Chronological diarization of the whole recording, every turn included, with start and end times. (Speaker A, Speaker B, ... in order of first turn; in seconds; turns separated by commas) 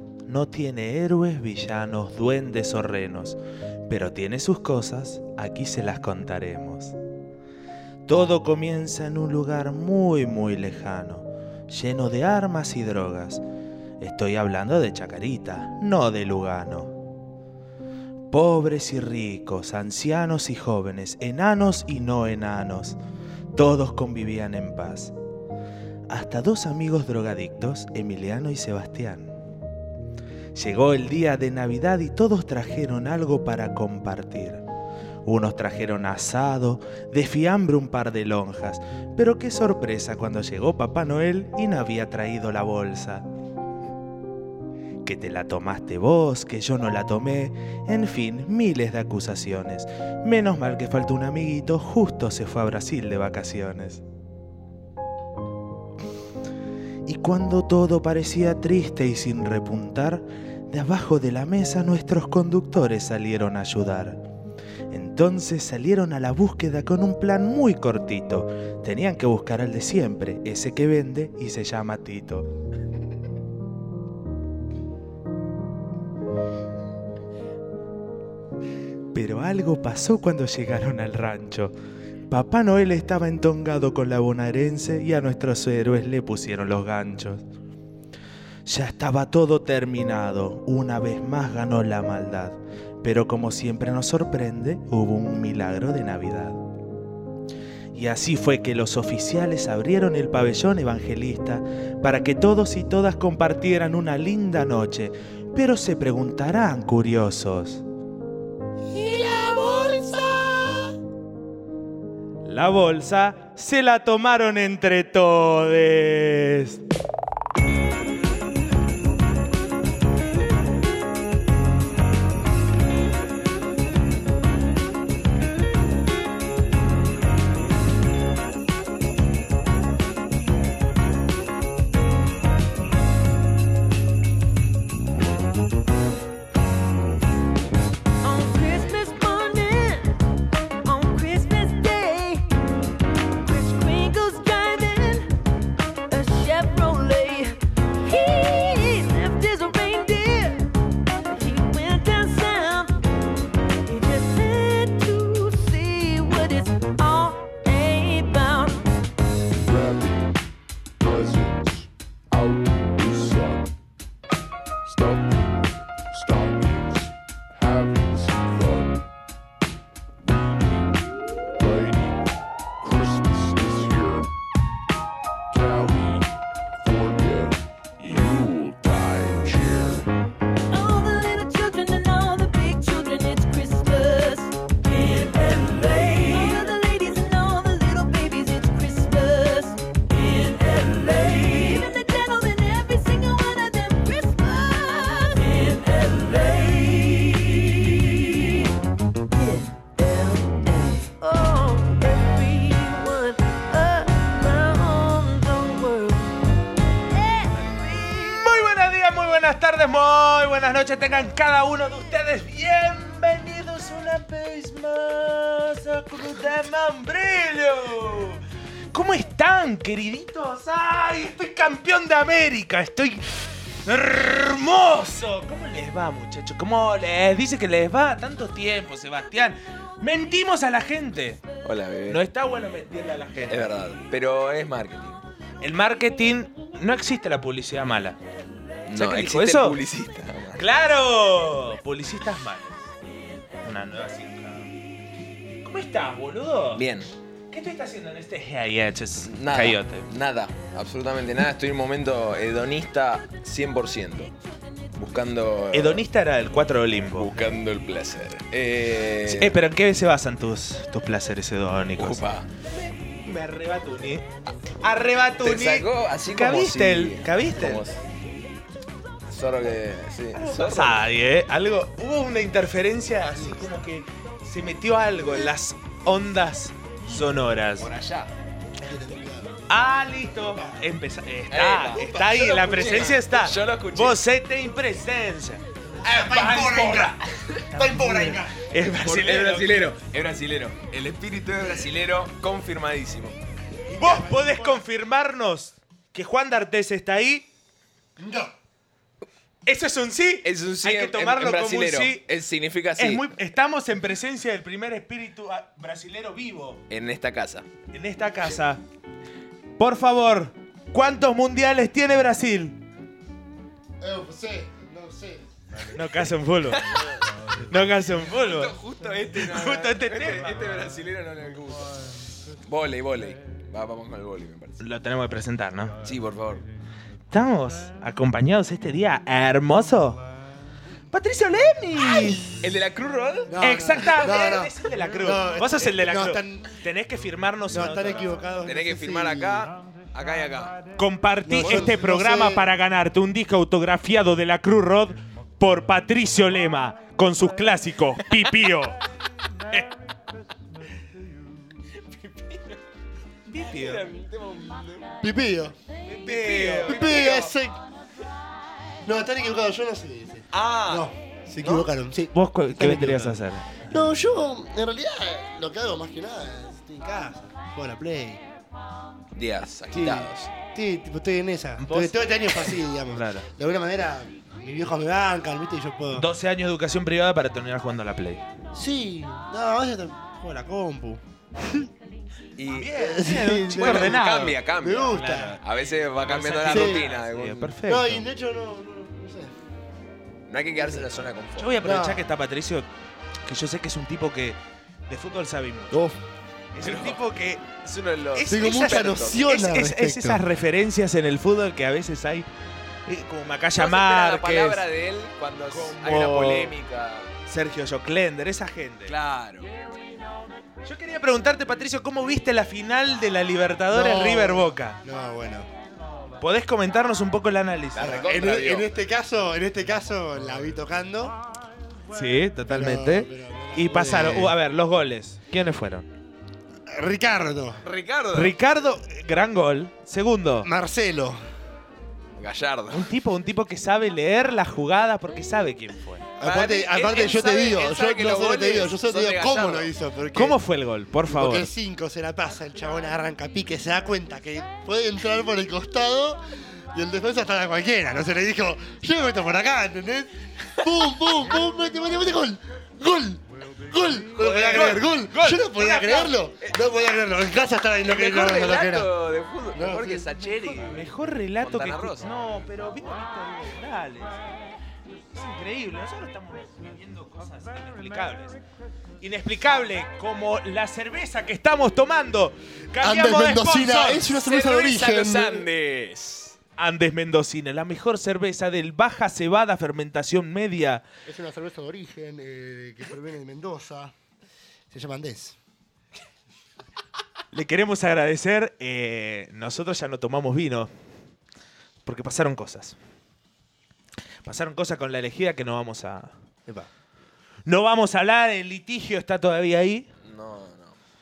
Speaker A: 0.3-7.0, Speaker A: 8.1-13.4, Speaker A: 14.0-16.9, Speaker A: 18.3-23.0, Speaker A: 23.6-25.1, Speaker A: 26.1-29.3, Speaker A: 30.5-34.6, Speaker A: 35.2-43.2, Speaker A: 45.0-54.0, Speaker A: 57.1-64.2, Speaker A: 64.9-72.5, Speaker A: 79.1-81.7, Speaker A: 82.3-87.4, Speaker A: 88.7-96.6, Speaker A: 97.9-107.8, Speaker B: 108.9-110.8, Speaker A: 112.4-116.8, Speaker B: 138.2-140.2, Speaker B: 140.8-142.5, Speaker B: 143.4-145.3, Speaker B: 146.1-150.7, Speaker B: 151.3-153.0, Speaker B: 153.9-158.8, Speaker C: 159.6-160.3, Speaker C: 161.0-163.7, Speaker C: 164.9-169.1, Speaker C: 170.4-172.2, Speaker C: 172.8-174.3, Speaker C: 175.5-176.3, Speaker C: 176.8-180.1, Speaker B: 180.7-198.7, Speaker B: 199.3-206.4, Speaker B: 207.1-208.8, Speaker A: 208.4-218.4, Speaker A: 218.9-231.4, Speaker D: 231.6-232.2, Speaker A: 232.1-233.8, Speaker D: 233.5-235.2, Speaker A: 235.6-238.2, Speaker D: 238.9-240.6, Speaker A: 238.9-239.8, Speaker A: 240.6-242.8, Speaker A: 243.6-244.7, Speaker A: 245.7-246.8, Speaker D: 246.8-247.1, Speaker A: 247.5-250.1, Speaker D: 249.2-254.3, Speaker D: 254.9-256.0, Speaker A: 255.7-257.4, Speaker D: 257.1-259.6, Speaker A: 259.3-264.3, Speaker D: 262.0-262.5, Speaker A: 264.8-267.9, Speaker D: 265.4-268.0, Speaker D: 269.3-271.0, Speaker A: 270.4-277.9, Speaker E: 273.3-273.6, Speaker D: 277.8-278.3, Speaker E: 278.8-279.6, Speaker A: 279.7-285.6, Speaker D: 281.5-284.2, Speaker E: 282.1-283.1, Speaker E: 286.0-287.2, Speaker A: 286.2-287.1, Speaker D: 286.5-287.1, Speaker A: 287.7-289.8, Speaker E: 287.7-288.6, Speaker D: 288.9-293.4, Speaker E: 293.9-294.8, Speaker A: 294.0-297.5, Speaker E: 298.2-298.5, Speaker A: 299.7-302.2, Speaker D: 300.4-303.4, Speaker A: 303.0-306.8, Speaker D: 306.9-307.7, Speaker A: 307.9-308.8, Speaker A: 309.8-312.8, Speaker E: 314.0-315.5, Speaker A: 315.9-316.9, Speaker D: 316.7-317.2, Speaker A: 317.7-318.8, Speaker D: 318.3-321.9, Speaker A: 319.4-320.6, Speaker D: 322.7-324.8, Speaker A: 324.8-326.0, Speaker D: 326.0-326.6, Speaker A: 327.3-330.2, Speaker A: 331.1-332.5, Speaker D: 332.6-333.5, Speaker E: 333.5-336.7, Speaker A: 333.6-338.3, Speaker E: 337.7-339.7, Speaker D: 338.6-340.8, Speaker A: 341.0-349.0, Speaker E: 341.5-342.7, Speaker D: 341.6-341.9, Speaker D: 352.0-352.8, Speaker A: 353.5-354.1, Speaker D: 353.6-355.1, Speaker E: 355.2-355.8, Speaker A: 356.1-357.3, Speaker D: 356.2-357.5, Speaker E: 356.9-357.8, Speaker E: 359.0-368.4, Speaker D: 360.5-361.1, Speaker A: 362.3-363.9, Speaker D: 369.4-370.5, Speaker E: 369.9-376.3, Speaker A: 371.8-373.5, Speaker A: 376.1-378.5, Speaker E: 378.7-381.9, Speaker D: 382.6-383.0, Speaker A: 382.7-388.2, Speaker E: 383.0-384.2, Speaker D: 383.8-387.8, Speaker E: 384.8-385.6, Speaker E: 386.7-387.0, Speaker E: 387.9-389.6, Speaker D: 390.5-391.8, Speaker E: 390.8-391.1, Speaker A: 391.6-392.9, Speaker E: 391.8-392.3, Speaker A: 393.5-394.6, Speaker A: 395.1-396.0, Speaker E: 395.9-396.2, Speaker A: 396.7-397.7, Speaker D: 396.8-399.5, Speaker A: 398.3-402.5, Speaker E: 398.5-400.4, Speaker A: 403.1-404.8, Speaker D: 403.8-407.3, Speaker A: 405.7-406.7, Speaker A: 407.5-409.1, Speaker D: 409.1-409.7, Speaker A: 410.8-415.0, Speaker E: 413.9-415.7, Speaker A: 416.4-418.3, Speaker D: 417.9-418.9, Speaker E: 418.1-421.4, Speaker A: 422.1-426.1, Speaker E: 422.7-424.6, Speaker E: 426.9-427.8, Speaker D: 427.8-428.6, Speaker A: 428.3-430.7, Speaker E: 430.6-431.4, Speaker D: 432.4-433.1, Speaker A: 432.9-436.3, Speaker E: 436.4-440.6, Speaker D: 436.4-439.9, Speaker A: 440.3-441.7, Speaker E: 441.2-459.1, Speaker A: 454.4-456.3, Speaker D: 456.6-456.9, Speaker D: 458.0-462.3, Speaker E: 459.7-460.3, Speaker A: 460.9-464.4, Speaker A: 465.3-468.6, Speaker A: 469.2-474.3, Speaker E: 473.0-475.7, Speaker D: 474.3-476.6, Speaker A: 476.8-481.0, Speaker E: 481.3-484.1, Speaker E: 484.9-485.6, Speaker A: 487.5-490.9, Speaker A: 492.1-493.0, Speaker A: 494.4-496.3, Speaker A: 497.7-500.1, Speaker D: 500.2-501.0